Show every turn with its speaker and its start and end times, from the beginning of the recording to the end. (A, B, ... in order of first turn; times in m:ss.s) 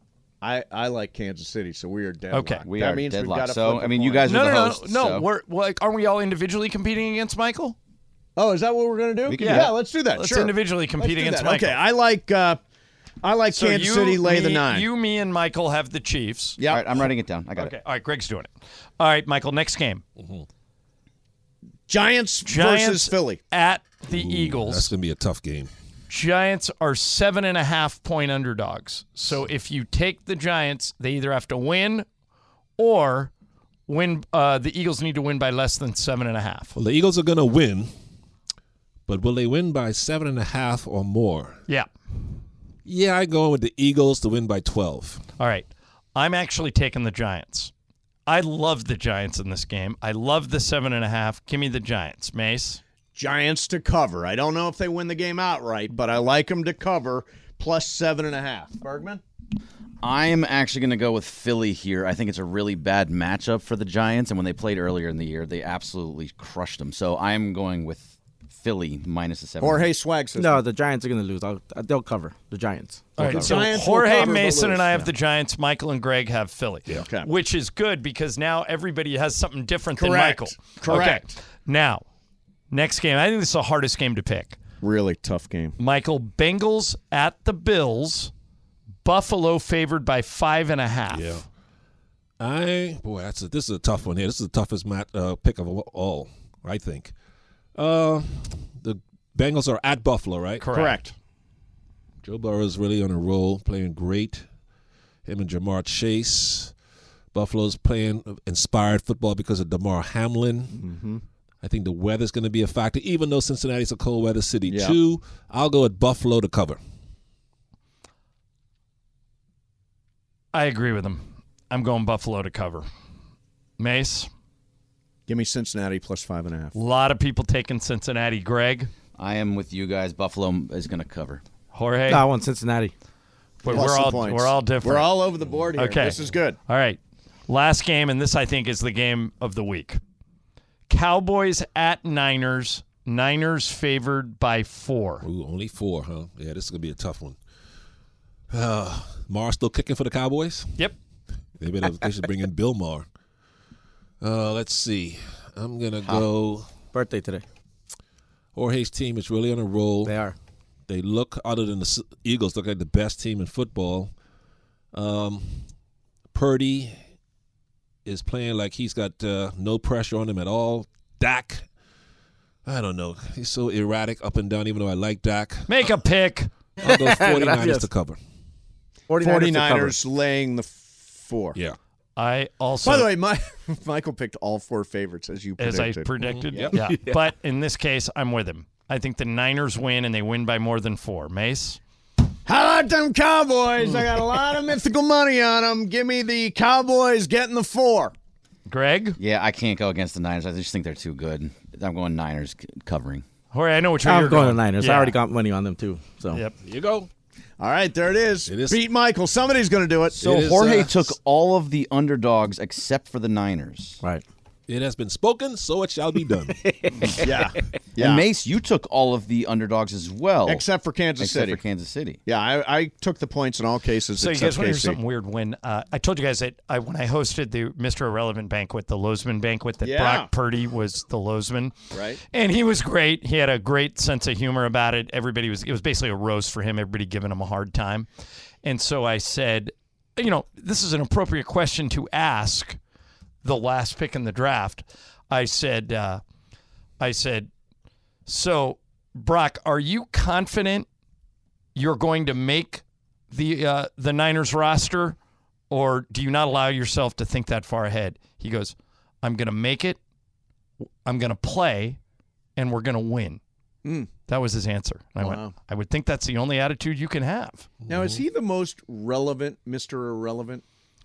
0:00.4-0:04.5 A
0:02.3-0:02.6 B
0:02.6-0:05.3 C
0:04.2-0:07.8 B
0:08.4-0:12.6 A
0:09.2-0:09.8 C
0:09.4-0:11.8 B
0:13.2-0:14.9 A
0:13.5-0:16.6 B
0:16.6-0:16.9 A
0:16.6-0:17.7 C
0:17.6-0:20.0 B
0:20.2-0:20.5 D
0:21.9-0:23.4 A
0:22.5-0:24.9 B
0:24.1-0:25.7 D
0:26.1-0:32.1 B
0:32.8-0:33.3 B
0:33.9-0:36.8 B
0:36.8-0:37.9 D
0:39.1-0:41.6 D
0:42.8-0:45.2 D
0:45.4-0:47.7 B
0:48.2-0:52.8 B
0:53.2-0:59.2 A
1:00.0-1:09.9 C
1:09.6-1:10.6 A
1:10.4-1:13.7 E
1:13.2-1:22.0 B
1:13.2-1:15.0 A
1:16.9-1:17.3 A
1:20.0-1:21.4 A
1:22.7-1:24.6 B
1:24.8-1:25.8 A
1:25.8-1:28.3 B
1:29.0-1:31.4 B
1:31.1-1:31.4 D
1:32.4-1:37.1 D
1:37.8-1:40.6 D
1:40.6-1:41.0 B
1:40.7-1:41.1 A
1:42.2-1:44.4 D
1:45.2-1:46.7 D
1:47.3-1:50.8 D
1:50.7-1:51.2 A
1:51.6-1:56.8 D
1:54.6-1:55.0 A
2:00.5-2:02.9 B
2:03.8-2:04.3 B
2:05.3-2:06.8 A
2:06.8-2:08.9 B
2:09.2-2:11.4 C
2:11.7-2:12.2 B
2:12.1-2:12.9 E
2:13.6-2:15.1 B
2:13.6-2:16.6 A
2:15.8-2:16.2 B
2:16.7-2:20.0 B
2:20.9-2:25.2 B
2:25.2-2:27.4 D
2:28.5-2:30.8 D
2:31.6-2:33.1 D
2:34.2-2:36.7 D
2:36.9-2:37.4 E
2:38.6-2:40.2 D
2:40.0-2:40.4 E
2:40.9-2:44.1 D
2:44.9-2:45.6 D
2:46.3-2:47.0 D
2:48.0-2:51.6 D
2:52.6-2:55.9 D
2:55.7-2:56.5 B
2:56.8-2:58.2 D
2:56.8-2:57.9 E
2:59.1-3:00.0 E
2:59.2-3:01.6 A
3:02.2-3:03.1 B
3:02.8-3:06.8 A
3:05.6-3:11.8 B
3:06.3-3:06.8 D
3:12.4-3:18.1 A
3:18.7-3:19.2 B
3:19.2-3:23.2 C
3:23.5-3:25.1 B
3:24.0-3:26.4 E
3:26.6-3:27.1 D
3:27.6-3:30.3 A
3:28.5-3:28.8 D
3:30.2-3:31.1 D
3:30.2-3:34.0 C
3:34.7-3:36.6 D
3:36.6-3:37.1 E
3:37.2-3:38.2 A
3:38.0-3:40.6 C
3:40.4-3:41.6 A
3:41.2-3:42.2 C
3:42.2-3:45.0 A
3:44.2-3:51.8 B
3:49.8-3:50.3 A
3:51.9-3:52.2 A
3:52.3-3:58.1 B
3:58.6-4:02.8 B
4:03.4-4:06.2 B
4:07.0-4:07.5 B
4:08.2-4:10.9 B
4:11.8-4:15.2 B
4:15.7-4:20.0 B
4:21.0-4:22.0 B
4:22.6-4:23.4 B
4:23.8-4:24.1 A
4:24.3-4:27.7 B
4:25.2-4:25.5 A
4:27.9-4:28.2 D
4:27.9-4:30.6 A